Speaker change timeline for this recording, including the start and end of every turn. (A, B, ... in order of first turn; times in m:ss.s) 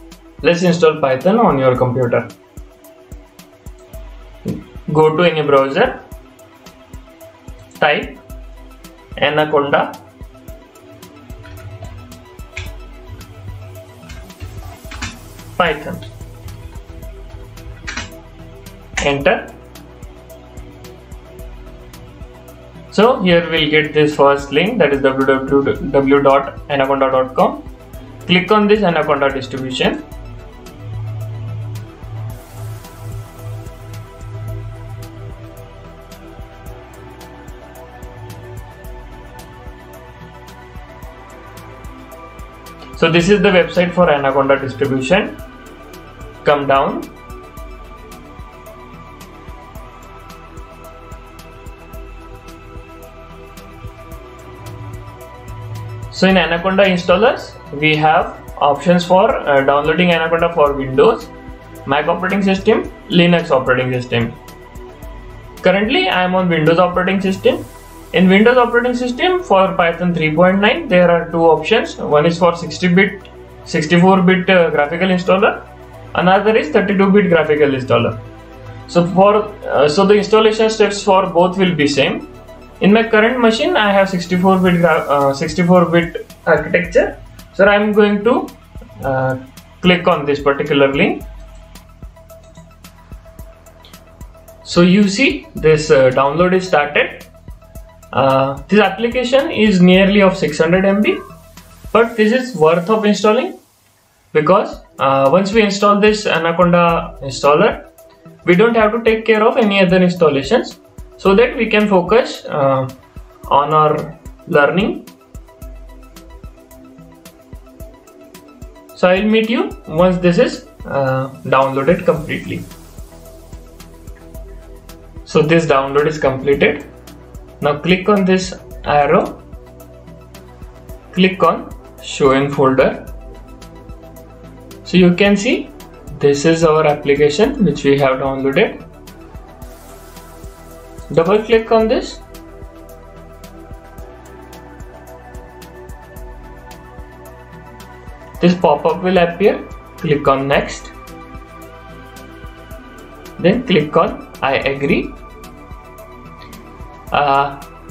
0:00.4-0:02.3 A
0:04.5-0:06.0 A
0:07.8-0:08.2 A
0:09.2-0:10.0 A
0:15.6-0:16.0 A
0:19.0-0:19.5 A
0:22.9-0:27.6 A
0:28.2-0:30.0 A
0:43.0-0:45.4 A
0:46.4-0:47.1 A
0:56.1-1:01.3 A
1:01.8-1:04.4 A
1:05.6-1:18.2 A
1:18.9-1:22.3 A
1:22.8-1:31.2 A
1:34.6-1:37.3 A
1:38.1-1:41.2 A
1:41.9-1:43.6 A
1:44.3-1:47.8 A
1:48.4-1:53.0 A
1:53.5-1:55.1 A
1:59.0-2:02.7 A
2:05.3-2:06.8 A
2:07.6-2:09.4 A
2:11.1-2:13.1 A
2:14.8-2:18.8 A
2:21.1-2:22.2 A
2:28.4-2:30.9 A
2:33.4-2:35.2 A
2:37.1-2:37.6 A